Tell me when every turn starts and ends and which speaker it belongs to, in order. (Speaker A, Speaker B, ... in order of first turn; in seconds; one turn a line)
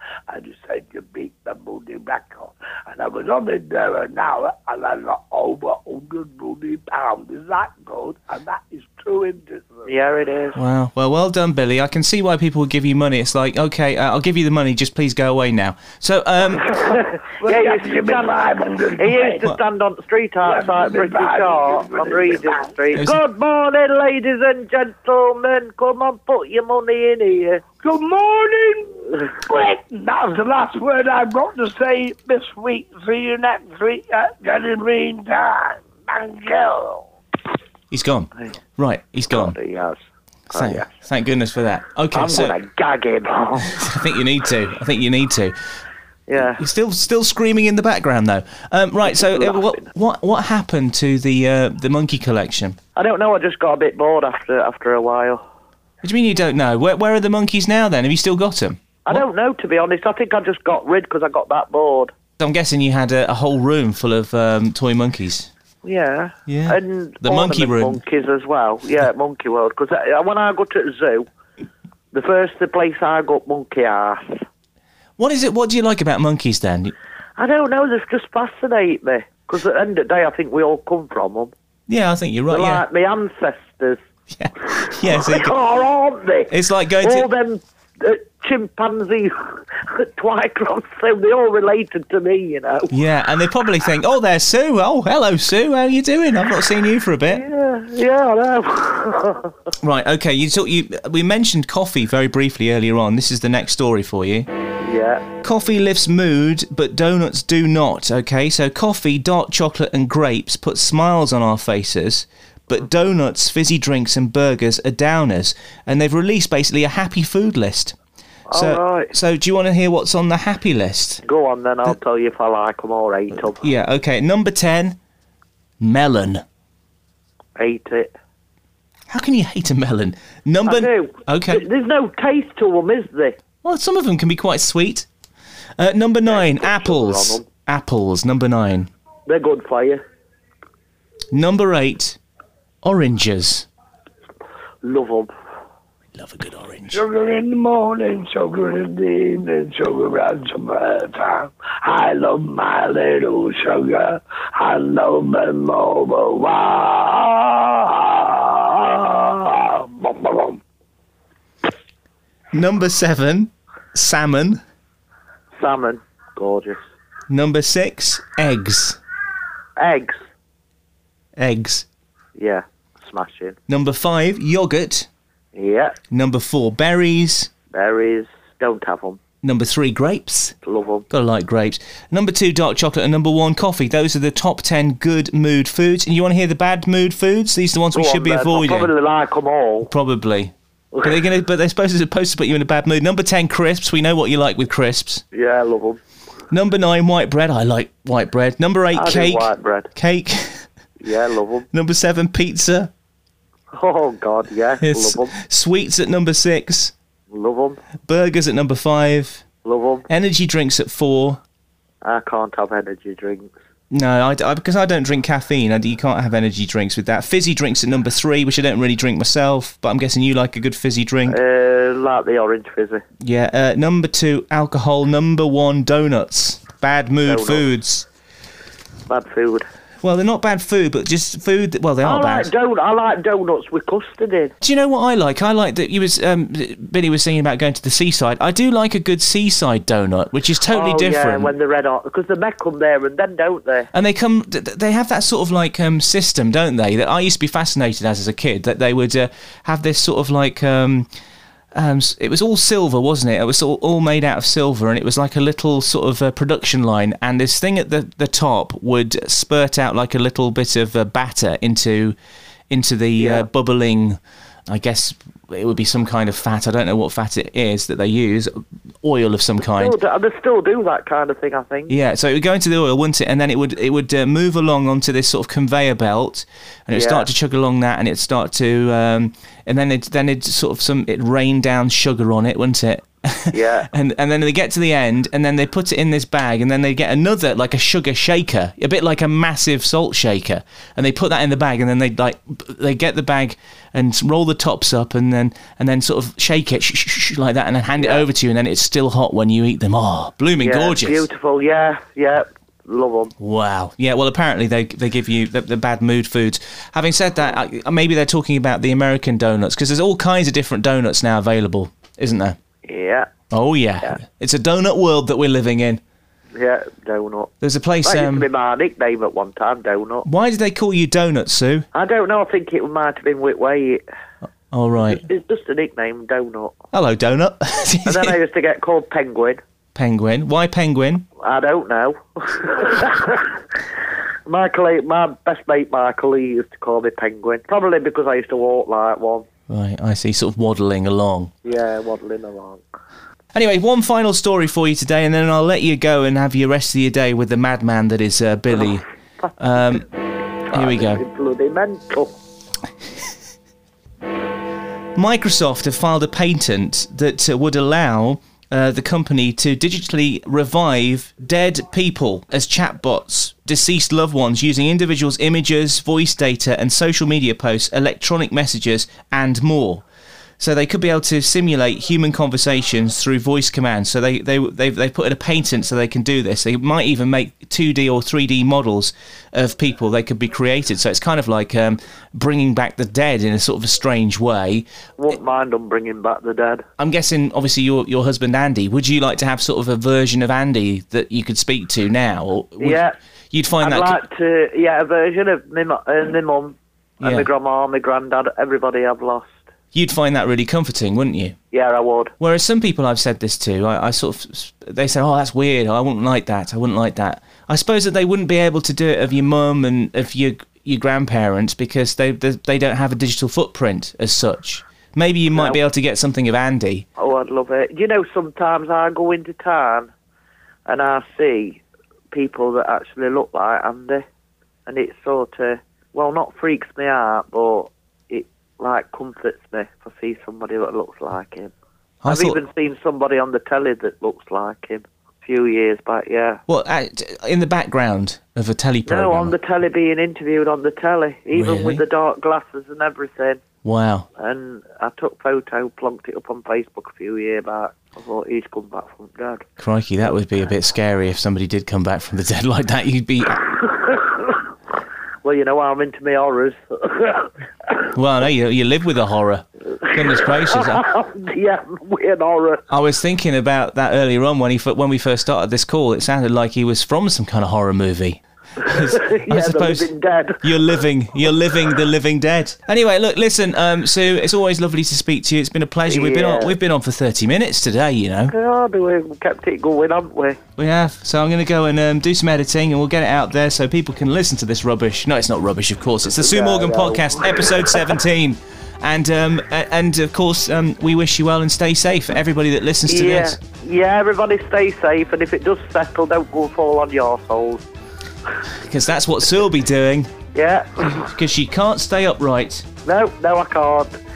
Speaker A: 0.3-9.9
Speaker B: 9.8-10.6
Speaker C: 10.5-16.8
Speaker B: 16.7-27.6
Speaker A: 17.4-19.4
Speaker A: 20.4-22.7
Speaker C: 22.9-23.2
Speaker A: 27.8-37.0
Speaker C: 37.9-39.5
Speaker B: 39.3-40.9
Speaker C: 40.5-42.5
Speaker B: 42.1-43.9
Speaker C: 43.6-45.5
Speaker B: 46.3-46.6
Speaker C: 46.4-52.8
Speaker B: 49.0-49.9
Speaker B: 53.0-55.4
Speaker C: 56.0-59.2
Speaker B: 59.0-62.1
Speaker C: 62.4-65.5
Speaker B: 65.8-71.3
Speaker C: 66.5-68.0
Speaker B: 72.1-74.4
Speaker C: 75.2-76.9
Speaker B: 77.4-81.5
Speaker C: 81.9-82.8
Speaker B: 82.5-84.0
Speaker C: 84.3-85.6
Speaker B: 84.8-92.9
Speaker C: 86.5-87.3
Speaker C: 92.9-97.4
Speaker B: 97.3-99.5
Speaker C: 99.8-104.5
Speaker B: 104.8-105.2
Speaker C: 105.4-118.0
Speaker B: 118.5-119.1
Speaker C: 118.5-121.2
Speaker B: 121.2-123.7
Speaker C: 123.5-125.0
Speaker C: 125.8-126.4
Speaker B: 127.6-128.1
Speaker C: 129.1-131.6
Speaker B: 130.6-133.4
Speaker C: 133.6-135.1
Speaker C: 135.8-138.9
Speaker B: 136.2-137.4
Speaker B: 139.2-140.0
Speaker C: 141.3-142.2
Speaker C: 142.8-143.7
Speaker B: 144.8-145.3
Speaker C: 146.1-147.0
Speaker A: 146.9-160.6
Speaker C: 162.5-164.6
Speaker B: 165.5-166.8
Speaker C: 167.3-169.0
Speaker B: 169.8-170.2
Speaker C: 171.4-171.9
Speaker B: 172.3-173.6
Speaker C: 173.7-175.1
Speaker B: 175.5-175.9
Speaker C: 176.1-177.5
Speaker B: 177.7-179.2
Speaker C: 179.4-180.5
Speaker B: 180.6-181.1
Speaker C: 181.1-188.9
Speaker B: 187.9-189.9
Speaker C: 189.9-195.2
Speaker B: 195.3-196.0
Speaker C: 196.5-200.7
Speaker B: 198.9-199.9
Speaker B: 201.0-201.7
Speaker C: 201.7-202.9
Speaker B: 203.7-205.4
Speaker C: 204.8-206.9
Speaker B: 207.3-207.8
Speaker C: 208.1-209.4
Speaker B: 209.6-210.1
Speaker C: 210.1-211.4
Speaker B: 212.0-213.5
Speaker C: 213.9-221.4
Speaker B: 221.3-223.0
Speaker C: 223.2-228.1
Speaker B: 227.2-227.7
Speaker B: 229.1-229.7
Speaker C: 230.0-232.5
Speaker B: 232.0-234.5
Speaker C: 234.6-241.5
Speaker B: 240.7-243.9
Speaker C: 243.9-251.1
Speaker C: 251.7-262.1
Speaker C: 262.7-269.9
Speaker B: 263.2-263.5
Speaker B: 269.6-271.9
Speaker C: 271.9-301.3
Speaker B: 276.9-277.3
Speaker B: 283.5-283.9
Speaker B: 298.0-298.2
Speaker B: 300.6-303.3
Speaker C: 303.4-312.6
Speaker B: 312.9-313.3
Speaker C: 313.5-316.0
Speaker B: 316.5-317.5
Speaker C: 317.6-318.4
Speaker B: 318.0-320.3
Speaker C: 320.2-321.9
Speaker B: 321.9-324.0
Speaker C: 324.7-325.2
Speaker B: 325.0-326.8
Speaker C: 326.9-328.4
Speaker B: 328.0-329.6
Speaker C: 329.9-331.2
Speaker B: 331.4-333.6
Speaker B: 334.5-339.4
Speaker C: 339.7-341.5
Speaker B: 341.6-342.8
Speaker C: 343.5-349.0
Speaker C: 349.6-350.1
Speaker B: 350.7-352.3
Speaker C: 350.7-351.2
Speaker C: 355.1-370.0
Speaker C: 370.6-384.9
Speaker B: 385.2-386.8
Speaker C: 387.0-394.2
Speaker B: 392.8-393.1
Speaker B: 393.8-399.6
Speaker C: 397.2-397.5
Speaker C: 399.9-401.5
Speaker B: 401.7-402.3
Speaker C: 402.4-417.0
Speaker B: 415.5-415.8
Speaker B: 417.2-420.1
Speaker B: 420.9-424.2
Speaker B: 424.9-431.7
Speaker C: 432.2-432.6
Speaker B: 432.2-436.6
Speaker C: 436.7-439.5
Speaker B: 439.1-443.6
Speaker C: 441.5-442.0
Speaker C: 443.8-444.3
Speaker B: 444.4-449.6
Speaker C: 449.8-453.9
Speaker B: 454.0-454.7
Speaker B: 455.4-458.1
Speaker C: 458.1-461.0
Speaker B: 460.0-462.8
Speaker C: 462.9-470.1
Speaker B: 468.8-470.7
Speaker C: 470.6-478.5
Speaker B: 476.1-476.8
Speaker B: 478.5-480.6
Speaker C: 480.8-493.6
Speaker B: 486.4-488.2
Speaker B: 493.0-497.8
Speaker C: 498.7-500.3
Speaker B: 500.5-501.1
Speaker C: 501.0-502.9
Speaker B: 503.0-504.1